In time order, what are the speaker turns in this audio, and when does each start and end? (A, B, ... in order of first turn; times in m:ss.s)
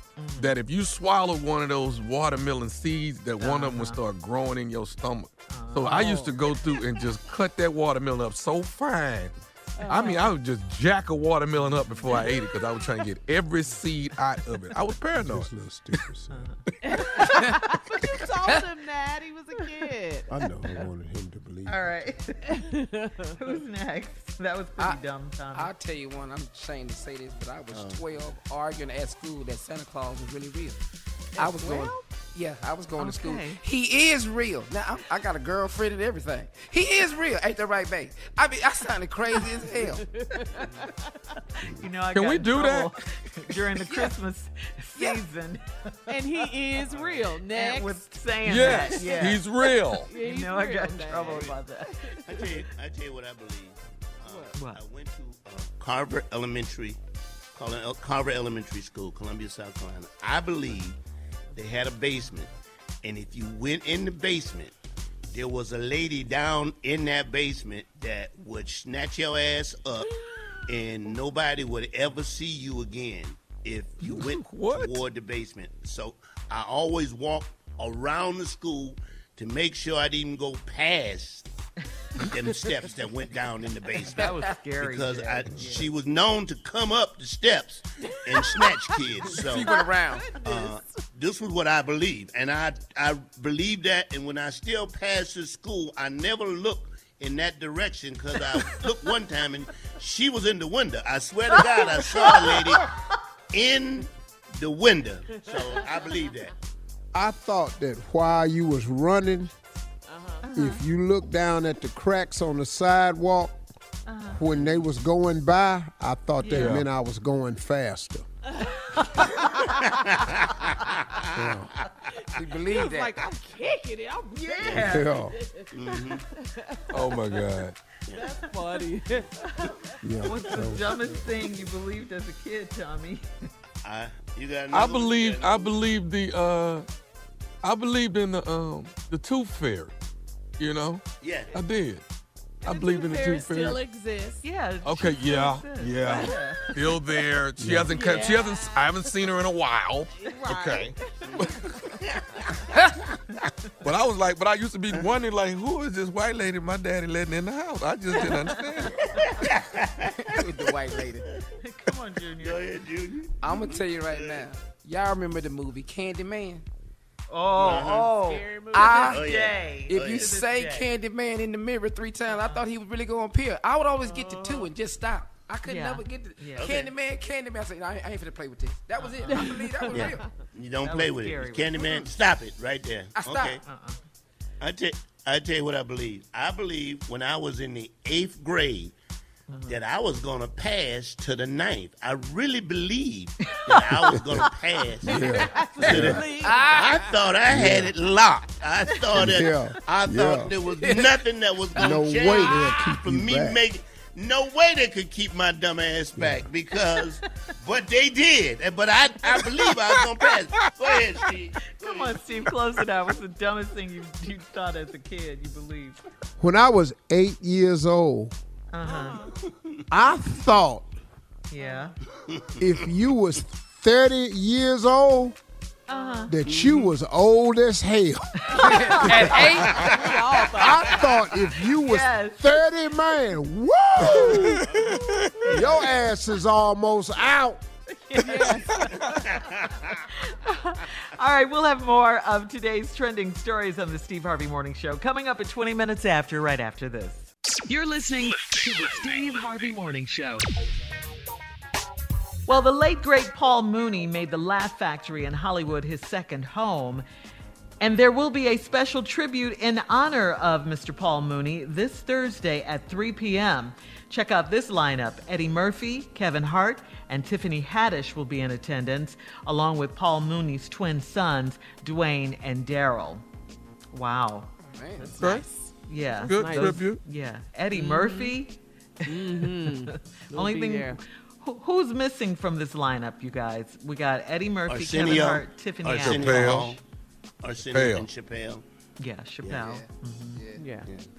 0:00.2-0:00.5 A
0:00.4-0:09.3 B
0:03.4-0:04.0 A
0:05.5-0:06.2 A
0:05.9-0:06.3 C
0:09.8-0:10.3 C
0:09.8-0:15.5 B
0:12.2-0:12.4 C
0:15.2-0:16.5 D
0:16.8-0:20.3 C
0:17.0-0:17.2 B
0:17.2-0:17.6 E
0:20.3-0:21.9 D
0:21.7-0:22.7 A
0:22.5-0:23.6 C
0:23.4-0:25.7 A
0:25.5-0:30.8 E
0:27.7-0:28.0 F
0:31.4-0:40.1 E
0:31.4-0:32.0 C
0:33.0-0:33.6 A
0:39.4-0:41.1 C
0:41.6-0:46.2 A
0:42.1-0:42.9 B
0:43.9-0:44.1 E
0:45.0-0:45.2 E
0:46.1-0:52.6 C
0:47.5-0:49.5 A
0:48.4-0:50.1 B
0:50.1-0:52.2 A
0:52.2-0:57.0 F
0:54.2-0:54.5 C
0:54.6-0:54.8 A
0:57.5-1:01.0 F
1:01.5-1:02.5 F
1:03.0-1:04.7 F
1:05.3-1:10.1 F
1:10.6-1:21.5 F
1:14.0-1:15.0 B
1:22.2-1:29.8 F
1:24.0-1:25.9 A
1:24.2-1:24.5 E
1:28.2-1:31.0 C
1:29.3-1:30.4 E
1:30.4-1:42.9 F
1:41.6-1:42.5 C
1:42.2-1:42.8 A
1:43.5-1:46.5 F
1:45.3-1:46.4 C
1:47.1-1:49.5 D
1:50.1-1:50.5 C
1:50.4-1:50.8 A
1:50.5-1:53.6 D
1:54.0-1:54.4 A
1:54.3-1:58.3 D
1:54.6-1:54.8 F
1:56.4-1:56.8 A
1:56.5-1:56.9 B
1:58.5-2:01.3 C
1:59.7-2:01.4 F
2:01.3-2:01.7 D
2:02.2-2:10.0 C
2:02.3-2:03.3 E
2:04.4-2:05.1 A
2:04.6-2:05.0 F
2:04.8-2:05.4 D
2:05.7-2:06.2 F
2:06.9-2:07.8 B
2:08.1-2:08.4 F
2:10.0-2:11.0 D
2:10.2-2:13.2 A
2:13.8-2:15.7 F
2:14.7-2:16.9 B
2:17.6-2:19.9 B
2:20.6-2:22.0 B
2:21.2-2:21.6 F
2:22.6-2:23.8 B
2:22.6-2:24.4 C
2:24.4-2:26.7 A
2:24.8-2:32.0 B
2:26.0-2:27.0 C
2:27.6-2:28.0 D
2:27.9-2:28.9 C
2:30.1-2:31.5 C
2:31.2-2:32.6 F
2:32.7-2:33.1 E
2:33.8-2:39.2 B
2:39.1-2:41.4 F
2:40.2-2:41.3 E
2:41.6-2:42.6 A
2:42.4-2:44.5 F
2:43.4-2:46.6 E
2:47.3-2:50.9 A
2:47.6-2:48.1 F
2:47.6-2:49.2 C
2:48.7-2:49.3 E
2:48.9-2:50.4 F
2:49.9-3:00.2 E
2:54.0-2:54.7 C
2:55.6-2:56.7 A
2:56.6-2:56.9 F
2:59.0-2:59.5 A
2:59.2-3:00.3 C
2:59.9-3:03.6 F
3:00.8-3:02.1 A
3:03.1-3:03.6 E
3:03.6-3:04.0 A
3:04.6-3:08.9 F
3:09.5-3:09.8 A
3:09.6-3:32.3 F
3:13.5-3:13.9 A
3:14.2-3:14.5 D
3:15.0-3:16.2 D
3:15.2-3:17.0 C
3:16.4-3:17.1 E
3:17.5-3:17.9 D
3:19.1-3:20.5 D
3:20.7-3:21.2 E
3:21.8-3:23.6 D
3:21.8-3:22.0 E
3:26.2-3:26.5 D
3:29.3-3:31.3 B
3:31.7-3:36.0 A
3:36.4-3:38.3 D
3:38.7-3:39.3 A
3:38.8-3:39.3 C
3:39.9-3:40.9 D
3:41.5-3:42.0 A
3:41.6-3:41.9 C
3:42.3-3:42.8 F
3:42.6-3:45.4 D
3:45.9-3:46.3 A
3:45.9-3:46.3 C
3:46.3-3:49.2 D
3:46.4-3:46.9 F
3:48.4-3:49.4 A
3:48.5-3:50.1 E
3:49.3-3:51.0 F
3:49.4-3:51.1 C
3:50.5-3:54.7 D
3:51.8-3:52.7 A
3:54.0-3:55.5 B
3:55.5-3:57.6 D
3:58.0-4:07.3 A
3:58.2-3:59.3 C
3:59.1-4:00.0 F
4:07.7-4:10.5 G
4:12.5-4:17.0 A
4:17.8-4:33.2 A
4:33.9-4:34.5 A
4:34.6-4:35.2 E
4:35.0-4:36.8 C
4:35.2-4:35.4 B
4:35.8-4:46.8 A
4:36.2-4:37.0 B
4:37.7-4:38.4 C
4:39.0-4:41.0 C
4:44.7-4:46.8 F
4:46.0-4:46.7 B
4:47.4-4:48.6 F
4:47.6-4:48.1 B
4:49.0-4:50.4 A
4:49.4-4:49.8 F
4:49.6-4:50.8 E
4:50.6-4:50.9 C